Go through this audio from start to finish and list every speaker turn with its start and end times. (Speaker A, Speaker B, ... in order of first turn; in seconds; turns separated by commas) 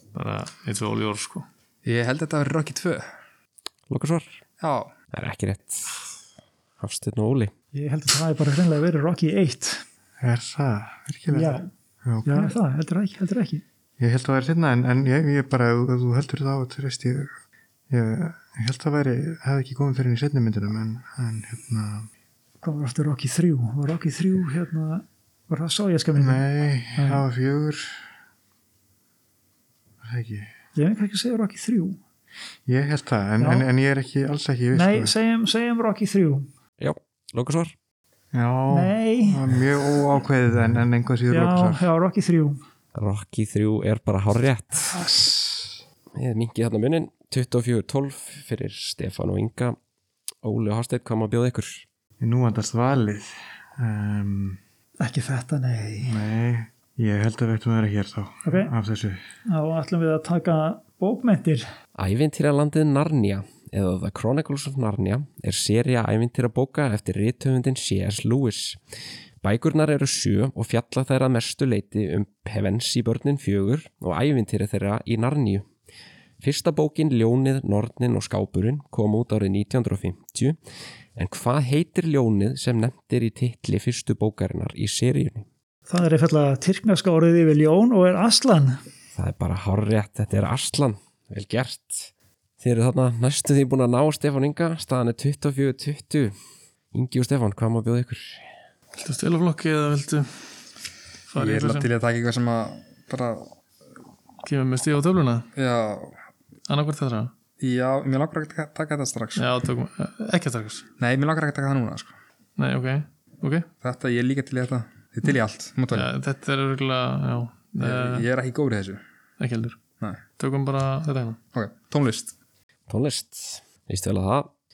Speaker A: 0.1-1.4, Speaker B: 1.8-3.1, Speaker C: 3.9-4.4, Speaker B: 4.6-4.9, Speaker C: 5.1-6.0, Speaker C: 6.8-7.5, Speaker D: 7.7-9.8, Speaker E: 10.2-12.5, Speaker D: 11.3-11.7, Speaker D: 12.2-13.6, Speaker E: 14.0-17.3, Speaker E: 17.9-22.1, Speaker D: 22.6-26.4, Speaker E: 26.2-28.0, Speaker D: 26.9-27.2, Speaker E: 30.0-30.5, Speaker D: 30.8-32.0, Speaker E: 32.7-35.1, Speaker D: 33.4-33.7, Speaker D: 34.7-36.5, Speaker C: 36.8-37.7, Speaker E: 38.3-41.8, Speaker D: 38.7-39.4, Speaker D: 41.3-42.6, Speaker C: 42.9-45.0, Speaker D: 44.9-45.8, Speaker C: 46.1-49.8, Speaker C: 50.4-51.8, Speaker E: 52.2-54.6, Speaker D: 55.0-56.2, Speaker E: 56.0-59.2, Speaker D: 58.4-58.7, Speaker D: 59.5-61.6, Speaker C: 62.0-68.8, Speaker C: 69.4-75.7, Speaker C: 76.4-80.6, Speaker C: 81.2-85.5, Speaker D: 85.9-88.8, Speaker C: 89.1-96.3, Speaker C: 96.9-98.4, Speaker A: 99.0-100.5, Speaker A: 101.3-101.9, Speaker B: 101.3-103.5, Speaker A: 104.4-105.5, Speaker B: 105.5-106.2, Speaker A: 106.7-107.3, Speaker B: 107.6-109.5, Speaker A: 109.4-110.9, Speaker B: 111.0-112.1, Speaker A: 112.6-113.7, Speaker B: 113.8-116.1, Speaker A: 115.9-118.3, Speaker B: 117.8-119.0, Speaker A: 119.4-119.8, Speaker A: 120.4-121.4, Speaker B: 121.5-122.3, Speaker C: 122.9-124.5